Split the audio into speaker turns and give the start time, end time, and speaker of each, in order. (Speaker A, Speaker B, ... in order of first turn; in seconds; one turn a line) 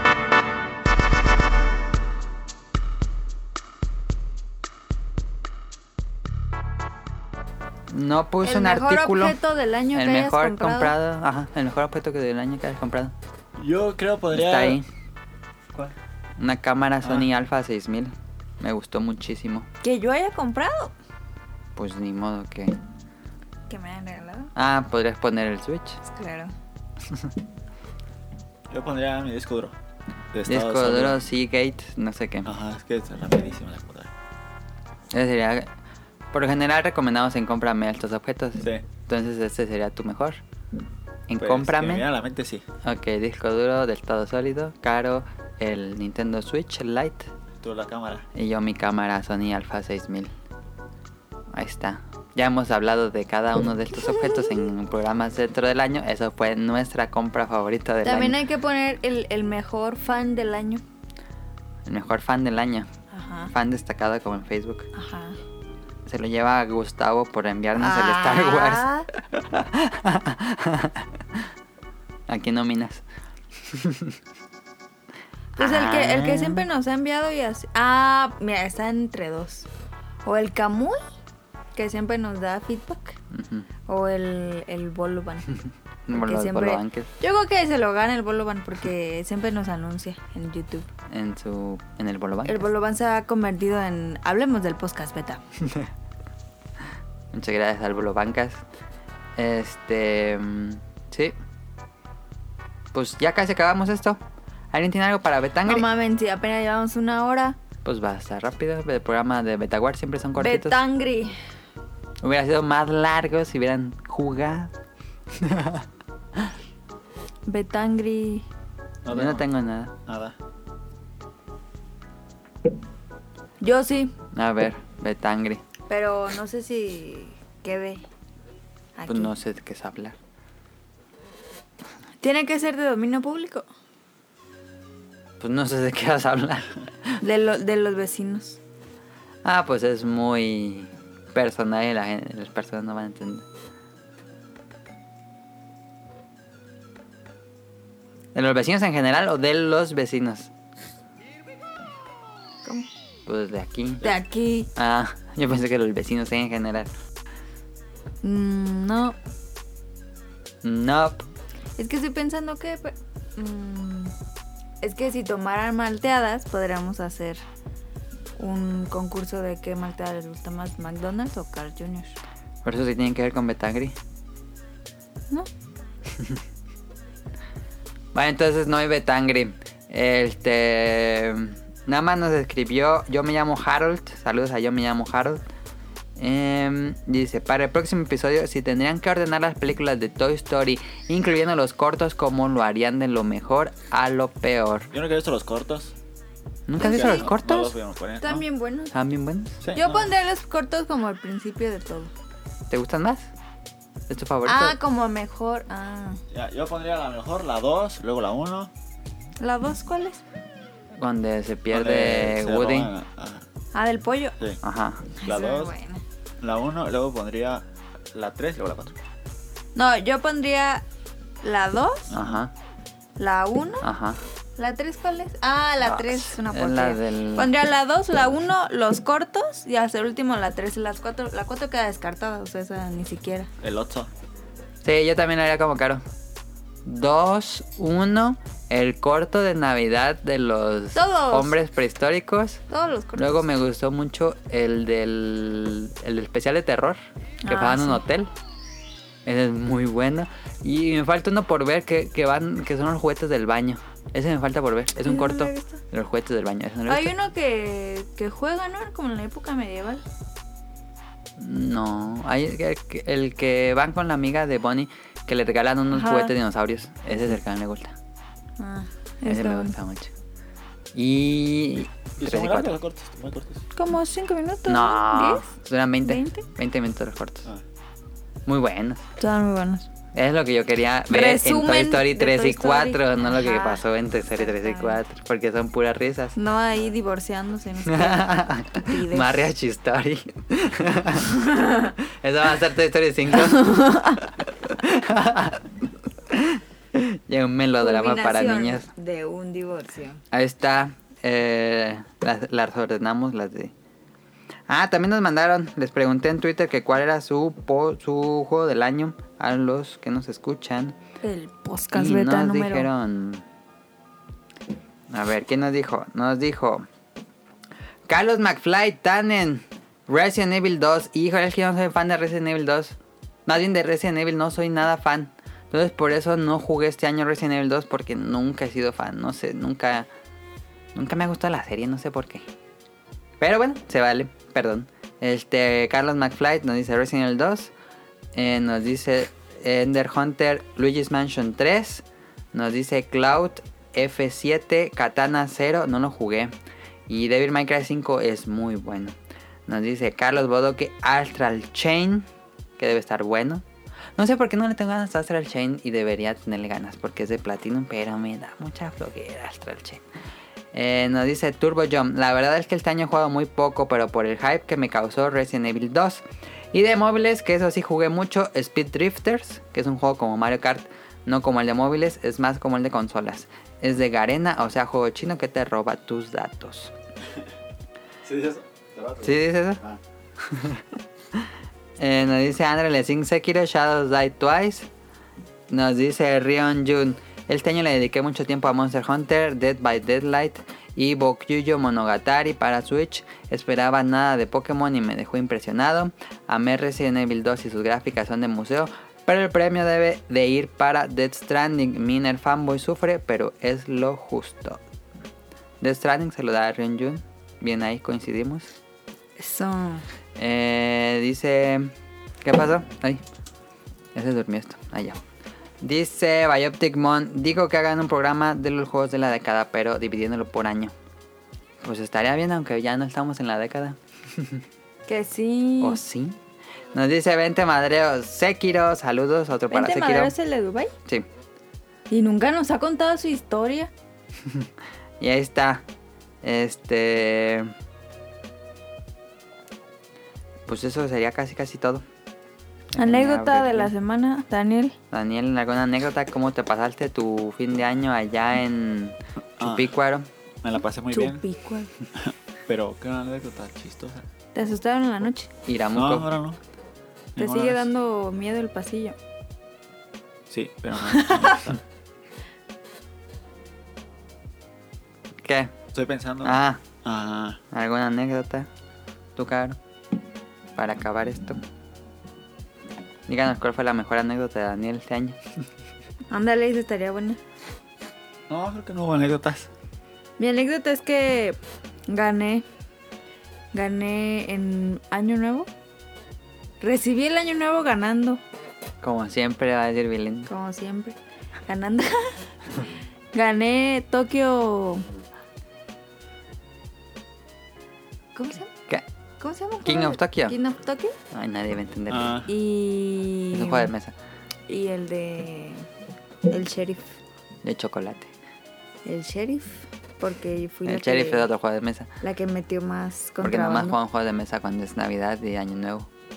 Speaker A: 7.9-9.3
Speaker B: 8.4-10.9
Speaker A: 9.9-13.1
Speaker C: 13.6-14.8
Speaker A: 14.3-14.8
Speaker A: 16.4-19.7
Speaker C: 17.0-17.3
Speaker B: 19.8-20.9
Speaker A: 21.8-22.8
Speaker B: 23.7-24.5
Speaker A: 24.5-26.0
Speaker B: 26.0-26.5
Speaker C: 28.7-29.7
Speaker C: 30.3-31.2
Speaker A: 30.5-32.5
Speaker C: 32.4-34.1
Speaker A: 35.1-35.7
Speaker A: 36.3-40.4
Speaker A: 41.3-42.0
Speaker C: 41.4-42.6
Speaker A: 42.8-47.3
Speaker C: 47.6-48.2
Speaker A: 48.3-50.3
Speaker A: 51.5-58.4
Speaker B: 54.0-54.7
Speaker B: 58.0-60.8
Speaker A: 61.9-62.9
Speaker B: 63.1-63.5
Speaker A: 63.5-64.9
Speaker B: 64.9-65.4
Speaker A: 66.0-71.4
Speaker B: 67.8-69.1
Speaker A: 72.3-73.0
Speaker A: 73.7-74.2
Speaker B: 75.5-79.7
Speaker A: 75.6-76.6
Speaker B: 80.2-81.0
Speaker B: 81.7-83.2
Speaker A: 83.3-83.7
Speaker B: 83.9-85.5
Speaker A: 86.1-87.1
Speaker B: 86.1-90.8
Speaker A: 91.1-92.7
Speaker B: 92.4-95.4
Speaker A: 97.3-98.6
Speaker A: 99.4-101.3
Speaker A: 102.9-104.2
Speaker A: 104.7-105.8
Speaker B: 105.7-107.6
Speaker A: 107.8-110.8
Speaker B: 110.4-111.3
Speaker A: 112.2-114.7
Speaker A: 115.3-115.8
Speaker B: 117.5-118.4
Speaker C: 119.0-119.5
Speaker A: 119.1-119.9
Speaker C: 120.0-120.3
Speaker B: 123.6-124.1
Speaker A: 124.3-125.6
Speaker B: 125.9-128.0
Speaker B: 128.9-129.3
Speaker A: 129.1-130.2
Speaker B: 132.2-133.7
Speaker A: 135.4-137.2
Speaker B: 137.2-138.6
Speaker A: 139.4-143.4
Speaker A: 148.3-150.5
Speaker A: 153.3-154.1
Speaker B: 154.0-154.7
Speaker A: 154.7-156.9
Speaker B: 158.2-159.2
Speaker A: 160.6-161.2
Speaker B: 161.8-164.1
Speaker B: 164.8-167.4
Speaker B: 168.4-172.2
Speaker A: 172.6-173.9
Speaker A: 178.1-185.4
Speaker A: 186.2-194.9
Speaker C: 194.9-195.9
Speaker A: 196.7-197.7
Speaker B: 196.8-197.3
Speaker C: 196.8-198.4
Speaker B: 198.2-198.9
Speaker A: 198.9-199.6
Speaker C: 199.6-200.1
Speaker B: 199.7-202.1
Speaker A: 202.7-203.3
Speaker A: 204.1-204.8
Speaker B: 204.4-206.2
Speaker C: 206.3-208.7
Speaker B: 209.4-210.2
Speaker A: 211.0-212.9
Speaker C: 211.7-213.4
Speaker B: 213.7-214.4
Speaker A: 214.6-215.1
Speaker B: 215.2-216.0
Speaker C: 215.2-215.7
Speaker C: 216.4-219.0
Speaker B: 219.7-220.8
Speaker B: 221.4-222.1
Speaker A: 222.1-222.5
Speaker C: 222.1-222.4
Speaker B: 223.2-223.8
Speaker A: 223.8-224.2
Speaker B: 224.6-233.5
Speaker A: 225.8-227.5
Speaker C: 233.6-234.1
Speaker A: 234.8-236.0
Speaker A: 236.8-242.6
Speaker B: 240.9-241.6
Speaker B: 242.7-243.5
Speaker A: 243.2-248.3
Speaker B: 247.4-248.0
Speaker A: 249.2-257.1
Speaker B: 255.1-255.8
Speaker B: 256.9-260.0
Speaker A: 261.4-267.9
Speaker B: 265.9-266.3
Speaker B: 268.6-269.7
Speaker A: 269.2-270.1
Speaker A: 270.9-272.8
Speaker C: 272.2-273.6
Speaker B: 273.8-275.5
Speaker A: 274.7-277.5
Speaker B: 276.0-276.4
Speaker A: 278.4-279.0
Speaker B: 279.2-279.9
Speaker A: 280.1-286.4
Speaker B: 281.1-283.8
Speaker B: 284.4-285.0
Speaker B: 286.4-289.5
Speaker A: 287.9-291.4
Speaker A: 292.0-295.7
Speaker B: 293.4-294.2
Speaker A: 296.3-298.9
Speaker B: 297.8-300.2
Speaker A: 300.3-303.7
Speaker A: 304.7-310.9
Speaker B: 311.2-312.9
Speaker A: 311.9-313.4
Speaker A: 315.1-316.9
Speaker A: 318.1-330.1
Speaker A: 330.9-332.4
Speaker A: 333.4-337.7
Speaker A: 338.3-346.5
Speaker A: 347.1-349.1
Speaker A: 349.7-352.3
Speaker A: 352.8-353.6
Speaker A: 354.2-360.0
Speaker A: 360.7-376.9
Speaker C: 378.2-380.0
Speaker A: 379.2-379.8
Speaker A: 380.4-380.8
Speaker A: 382.0-384.9
Speaker A: 385.7-404.8
Speaker A: 405.8-408.7
Speaker B: 409.4-410.0
Speaker A: 410.4-411.9
Speaker A: 412.4-413.2
Speaker A: 414.1-415.2
Speaker A: 415.8-420.9
Speaker A: 421.8-424.6
Speaker B: 425.1-426.0
Speaker A: 425.8-426.4
Speaker A: 426.9-430.3
Speaker B: 429.7-430.9
Speaker B: 432.1-433.9
Speaker A: 435.2-435.8
Speaker A: 436.4-437.7
Speaker A: 440.7-442.0
Speaker A: 442.9-443.9
Speaker B: 443.0-444.9
Speaker A: 445.1-450.3
Speaker C: 449.6-449.9
Speaker C: 450.6-451.4
Speaker B: 451.1-451.9
Speaker C: 452.1-454.3
Speaker B: 454.5-455.5
Speaker A: 455.6-456.3
Speaker C: 455.9-456.6
Speaker C: 457.4-457.9
Speaker B: 457.4-459.2
Speaker C: 460.5-461.8
Speaker B: 461.1-461.6
Speaker A: 465.4-465.7
Speaker C: 465.9-467.6
Speaker A: 466.4-466.8
Speaker A: 467.7-468.7
Speaker A: 469.4-469.8
Speaker A: 470.8-471.6
Speaker A: 473.3-475.4
Speaker B: 476.3-477.4
Speaker C: 478.5-479.7
Speaker B: 480.4-482.6
Speaker B: 483.7-485.7
Speaker B: 486.8-488.4
Speaker A: 489.0-490.5
Speaker B: 490.5-492.4
Speaker B: 493.3-495.1
Speaker B: 498.3-498.7
Speaker B: 499.4-501.1
Speaker A: 499.8-500.6
Speaker A: 501.3-502.3
Speaker C: 502.1-502.5
Speaker B: 502.5-503.9
Speaker A: 503.5-504.1
Speaker B: 504.7-505.9
Speaker B: 506.5-507.1
Speaker A: 507.6-508.3
Speaker B: 509.0-511.5
Speaker A: 510.9-512.1
Speaker B: 512.2-514.0
Speaker A: 513.4-516.1